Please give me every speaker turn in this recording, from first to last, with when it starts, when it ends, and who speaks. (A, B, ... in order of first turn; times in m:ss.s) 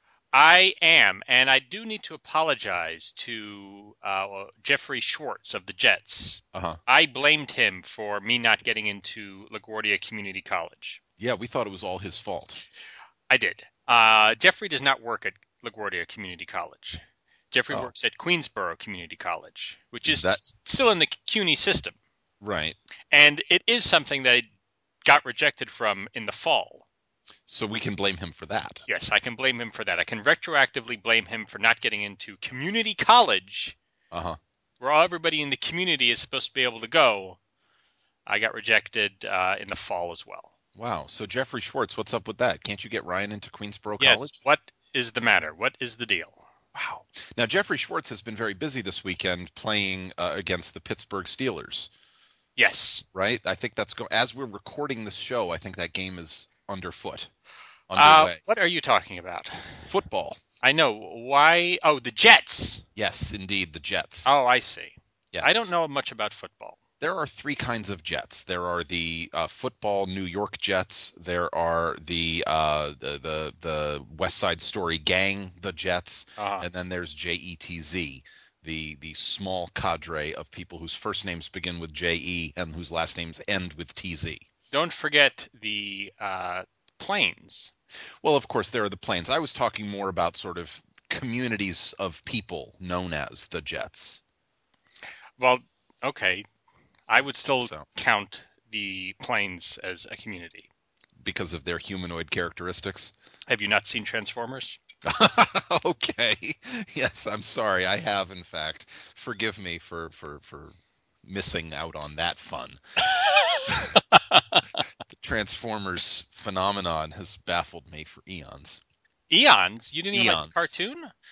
0:00.3-0:11.0 A
0:11.2-0:12.6 B
0:13.3-0:22.0 A
0:20.0-0:20.4 B
0:22.4-0:22.8 B
0:23.1-0:24.4 A
0:25.0-0:26.8 A
0:27.5-0:28.8 B
0:28.9-0:33.8 A
0:34.1-0:34.4 B
0:34.8-0:37.4 A
0:38.2-0:40.5 A
0:40.8-0:44.3 B
0:44.0-0:46.4 A
0:46.7-0:51.9 B
0:52.6-0:53.0 A
0:53.1-0:57.3 B
0:57.9-0:58.4 B
0:57.9-0:59.9 A
0:59.8-1:00.4 B
1:00.6-1:02.8 A
1:03.0-1:04.4 B
1:04.2-1:06.8 A
1:05.3-1:05.7 B
1:07.0-1:24.4 B
1:16.4-1:16.7 A
1:24.7-1:27.7 A
1:28.2-1:34.2 B
1:35.4-1:36.4 A
1:37.1-1:40.7 A
1:41.2-1:43.1 B
1:43.5-1:44.8 A
1:45.0-1:52.8 B
1:53.1-1:54.6 A
1:53.7-1:54.0 B
1:55.1-1:58.8 B
1:59.3-2:01.1 A
2:00.1-2:00.7 B